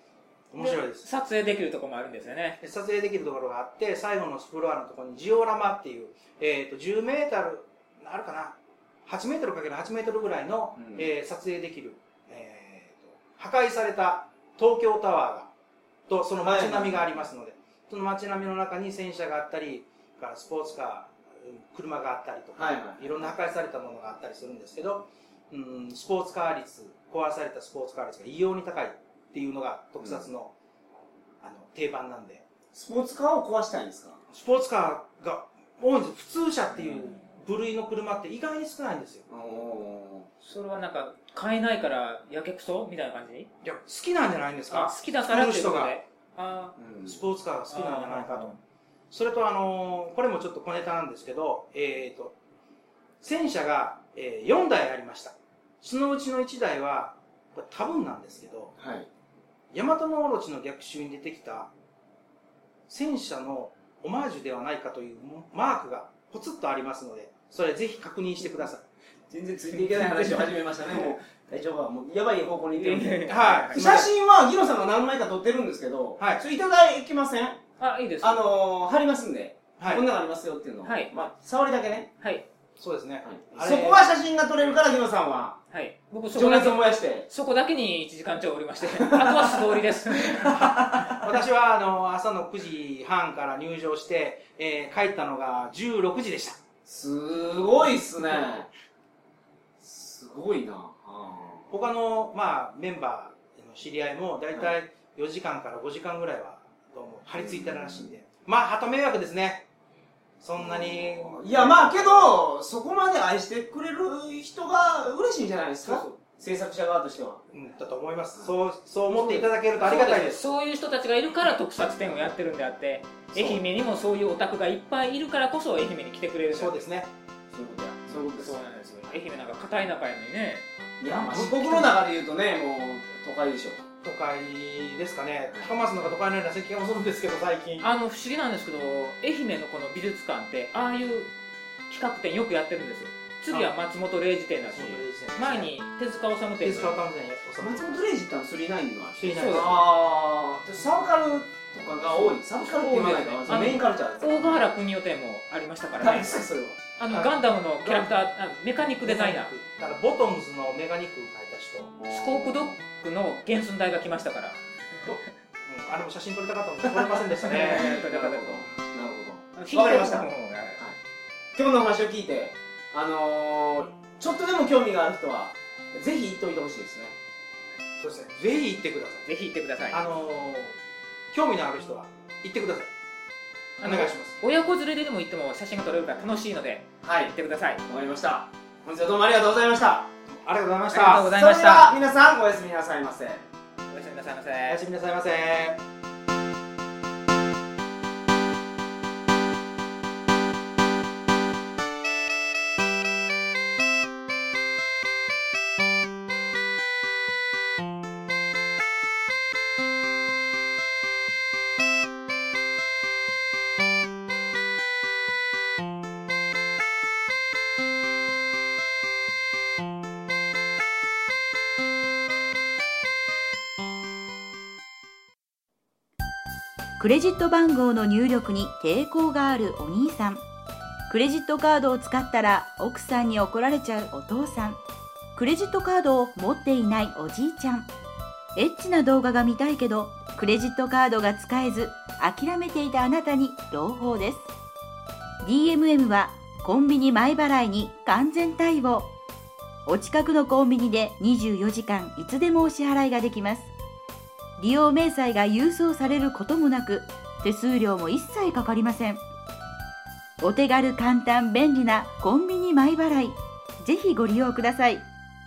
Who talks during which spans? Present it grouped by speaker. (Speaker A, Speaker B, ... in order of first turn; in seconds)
Speaker A: 0.5-1.1, 2.6-15.5, 16.1-30.5, 31.4-32.4, 34.3-39.2, 43.6-45.9, 47.0-48.5, 49.1-52.3, 53.2-58.7, 59.7-61.7, 62.9-68.8, 73.3-74.1, 79.8-80.0, 82.8-84.1, 90.5-96.6, 101.7-109.7, 110.4-112.3, 117.5-120.5, 126.5-127.1, 131.1-131.9, 134.0-137.9, 144.7-145.7, 146.6-148.0, 149.2-149.7, 157.1-158.2, 159.0-161.9, 165.7-168.7, 178.0-179.2, 179.9-180.8, 181.3-182.9, 183.8-184.3, 190.4-191.3, 194.7-195.8
Speaker B: 0.6-2.6, 40.4-43.5, 44.7-46.7, 47.7-48.6, 72.8-73.8, 77.8-78.4, 80.8-81.1, 82.2-82.5, 85.7-91.1, 115.8-116.2, 119.1-126.8, 128.2-131.8, 137.8-141.3, 141.9-147.0, 149.4-149.8, 152.2-156.4, 157.0-159.5, 162.1-165.2, 167.4-168.7, 169.6-170.8, 179.2-180.0, 183.8-187.8, 190.9-191.9, 193.9-194.8
Speaker C: 10.8-11.1, 16.4-17.2, 22.6-23.2, 30.0-30.2, 32.7-34.2, 39.3-40.3, 46.8-47.2, 58.8-59.1, 69.3-77.6, 78.2-82.1, 83.2-85.6, 86.3-87.3, 88.9-89.6, 90.1-91.2, 96.8-98.7, 99.8-101.7, 107.4-108.1, 110.6-117.4, 127.5-128.5, 131.0-133.8, 147.6-154.6, 156.0-156.8, 162.0-162.8, 167.4-171.0, 171.6-177.2, 187.0-187.3, 187.8-190.1, 191.3-193.4
Speaker D: 227.0-230.4, 231.1-234.8, 235.3-237.9, 238.5-244.5, 245.4-249.1, 249.8-253.7, 254.6-259.2, 260.4-265.0